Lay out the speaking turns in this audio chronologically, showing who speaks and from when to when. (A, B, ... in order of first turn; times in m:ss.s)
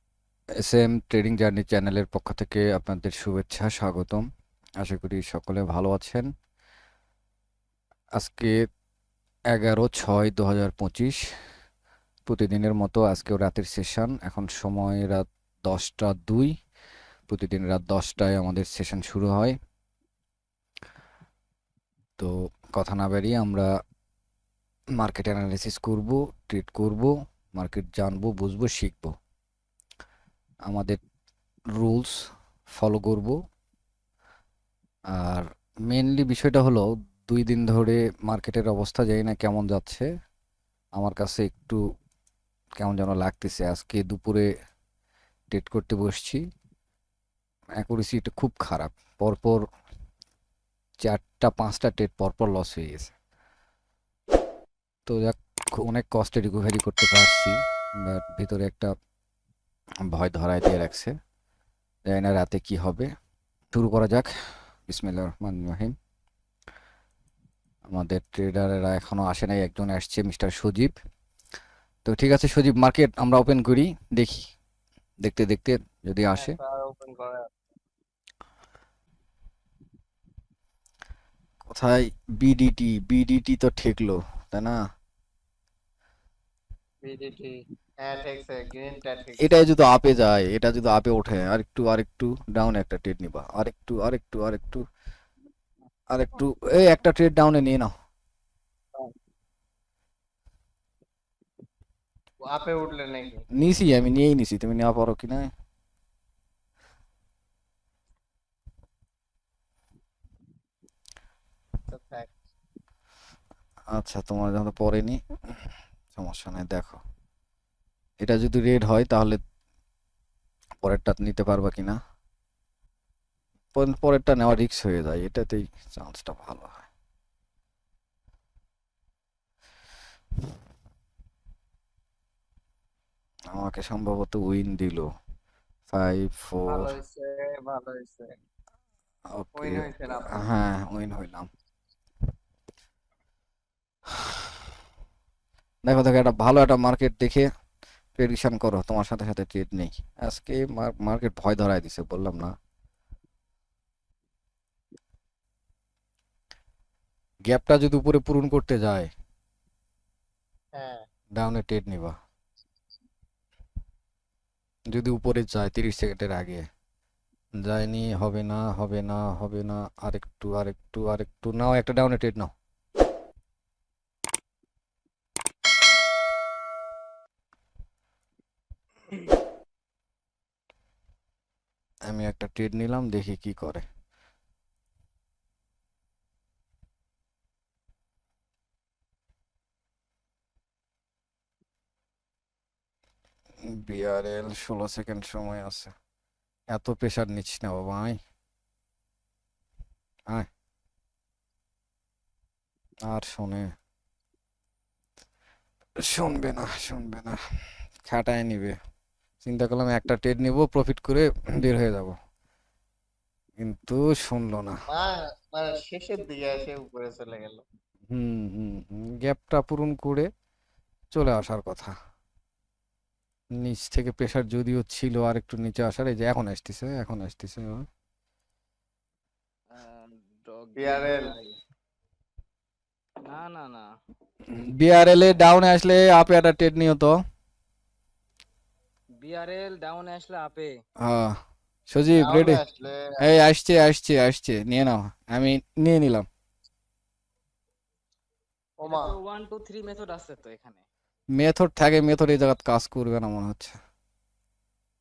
0:00.6-0:04.2 A
0:04.8-0:06.3 A
0:08.2-0:08.5 A
0:09.5-0:11.2 A
0:12.3-0:16.5 A
0:17.3-0:19.6 A
0:22.2-0:23.7 A
0:25.0-0:29.1 A
0:30.6-0:31.0 A
0:31.8-0:32.2 A
0:32.7-0:33.4 A
0:35.1-0:40.1 A
0:41.0-0:41.8 A
0:42.8-0:44.5 A
0:45.5-0:46.4 A
0:47.8-0:49.6 A
0:51.0-0:53.1 A
0:55.0-0:58.9 A
1:00.1-1:01.1 A
1:02.1-1:03.1 A
1:03.7-1:04.3 A
1:04.9-1:05.9 A
1:07.9-1:11.0 A
1:12.0-1:14.4 A
1:15.2-1:16.6 A
1:16.4-1:17.5 B
1:21.7-1:24.8 A
1:27.0-1:29.5 B
1:29.4-1:34.8 A
1:36.1-1:37.9 A
1:42.4-1:43.4 B
1:43.5-1:45.5 A
1:51.9-1:52.3 B
1:53.9-1:55.2 A
1:56.1-1:57.0 A
1:58.2-1:59.4 A
2:00.8-2:02.0 A
2:03.7-2:06.8 A
2:13.5-2:15.1 A
2:15.9-2:16.9 A
2:16.7-2:18.4 B
2:19.3-2:21.5 A
2:19.6-2:20.4 B
2:24.1-2:24.6 A
2:25.8-2:27.5 A
2:28.2-2:32.5 A
2:37.4-2:39.1 A
2:40.7-2:41.0 B
2:41.3-2:42.2 A
2:44.9-2:46.6 A
2:47.6-2:52.5 A
3:02.0-3:03.8 A
3:13.6-3:15.9 A
3:16.7-3:18.2 A
3:23.1-3:23.7 A
3:26.0-3:27.4 A
3:28.0-3:28.8 A
3:29.4-3:32.1 A
3:33.6-3:34.8 A
3:34.9-3:37.6 B
3:38.1-3:40.3 A
3:41.1-3:41.9 A
3:43.5-3:47.9 A
3:49.7-3:51.6 C
3:50.8-3:51.3 B
3:53.2-3:53.9 C
3:54.5-3:57.2 A
3:59.2-4:00.8 C
4:01.0-4:01.4 A
4:01.9-4:02.6 A
4:02.2-4:03.2 B
4:03.2-4:06.3 A
4:08.8-4:09.1 B
4:08.8-4:10.8 C
4:11.4-4:13.8 A